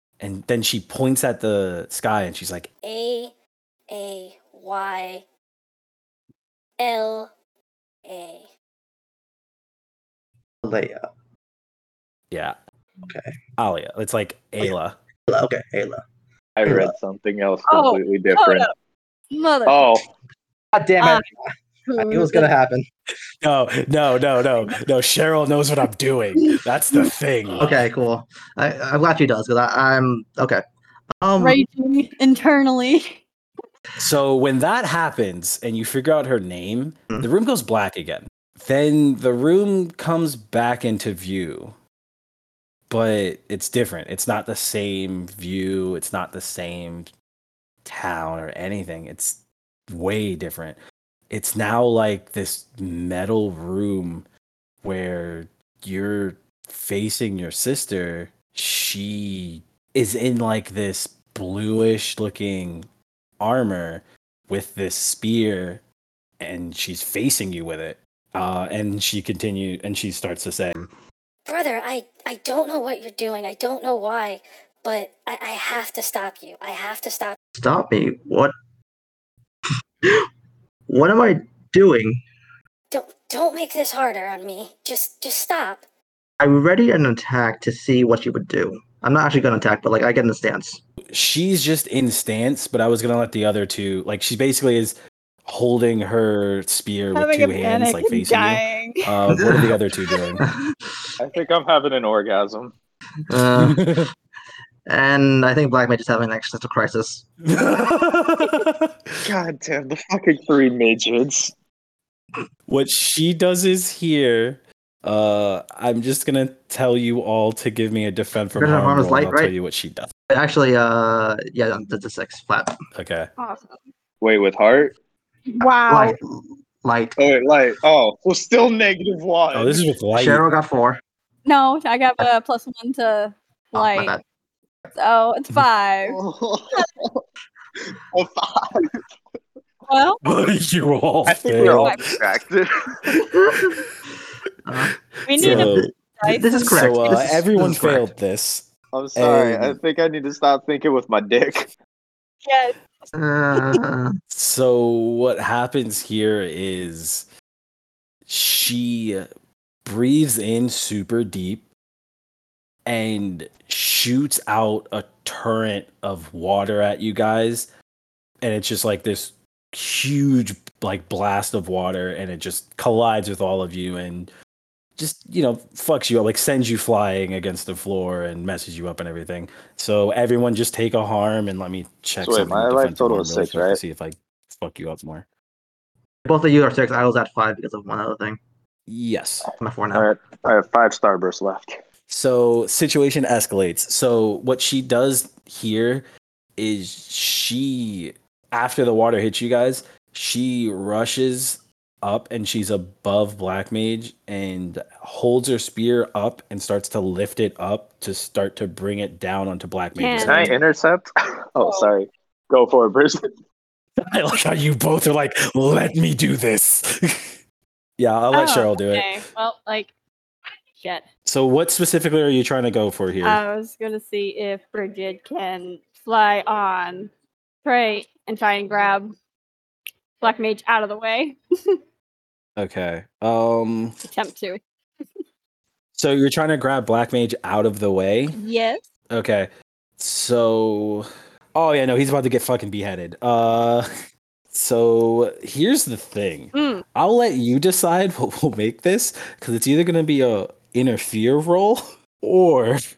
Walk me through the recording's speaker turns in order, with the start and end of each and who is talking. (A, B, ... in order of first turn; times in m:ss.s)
0:00.2-0:02.7 A
0:02.8-0:03.3 B
0:03.9-0:05.2 B
0:06.8-0:07.3 B
0:08.0-0:08.5 B
0:10.6-0:11.0 C
0:12.3-0:12.6 A
0:13.0-0:13.3 C
0:13.6-0:15.0 A
0:15.3-0:16.0 C
0:16.6-0:18.7 D
0:16.6-0:16.9 C
0:17.7-0:18.7 E
0:19.3-0:19.8 E
0:19.6-0:20.1 D
0:20.7-0:22.9 C
0:21.9-0:22.5 E
0:23.4-0:27.8 A
0:27.6-0:30.6 C
0:31.2-0:31.6 C
0:31.4-0:33.2 E
0:34.0-0:41.7 A
0:42.9-0:47.1 A
0:47.8-0:50.8 A
0:51.3-0:54.2 A
0:54.8-1:02.9 A
1:03.4-1:05.8 A
1:06.4-1:10.8 A
1:11.4-1:17.4 B
1:17.5-1:18.5 C
1:20.9-1:22.2 C
1:22.9-1:25.8 B
1:26.4-1:30.8 C
1:31.1-1:40.4 A
1:37.1-1:39.2 E
1:39.3-1:39.7 C
1:40.1-1:40.6 E
1:41.2-1:42.7 D
1:43.3-1:43.8 C
1:43.5-1:44.1 A
1:44.9-1:47.2 C
1:47.4-1:49.1 A
1:49.2-1:51.5 D
1:52.7-2:00.1 A
1:58.5-1:59.5 C
2:00.3-2:02.7 C
2:02.9-2:03.3 A
2:03.4-2:03.8 E
2:04.2-2:05.0 D
2:05.5-2:06.2 E
2:05.9-2:07.2 C
2:07.2-2:09.8 D
2:09.5-2:10.4 A
2:10.1-2:11.0 C
2:11.4-2:14.2 E
2:13.7-2:14.2 C
2:14.9-2:16.2 E
2:16.0-2:17.2 D
2:18.1-2:18.9 D
2:19.9-2:20.2 E
2:20.2-2:22.0 A
2:21.2-2:23.0 D
2:21.6-2:22.0 E
2:23.2-2:23.8 C
2:24.6-2:28.1 C
2:25.2-2:27.2 E
2:25.3-2:25.9 A
2:26.7-2:29.8 A
2:28.9-2:31.7 D
2:32.4-2:32.7 E
2:33.1-2:34.2 C
2:34.3-2:37.3 A
2:38.3-2:39.3 A
2:39.8-2:41.7 A
2:42.8-2:47.7 A
2:48.4-2:54.3 A
2:55.0-3:05.2 A
3:02.2-3:03.8 D
3:06.2-3:08.4 C
3:08.9-3:09.5 A
3:09.6-3:10.1 C
3:09.9-3:11.8 D
3:12.1-3:16.0 A
3:16.6-3:30.5 A
3:30.0-3:30.5 E
3:30.2-3:33.3 D
3:31.6-3:31.9 E
3:34.0-3:37.3 A
3:38.0-3:39.1 A
3:38.3-3:39.9 E
3:40.8-3:41.0 E
3:41.2-3:43.4 A
3:43.2-3:47.1 E
3:47.6-3:49.1 E
3:50.2-3:51.8 E
3:52.6-3:54.0 A
3:54.0-3:54.6 E
3:55.9-3:58.4 A
3:58.3-3:58.8 E
3:59.1-4:03.8 A
4:04.5-4:12.8 A
4:06.5-4:06.8 E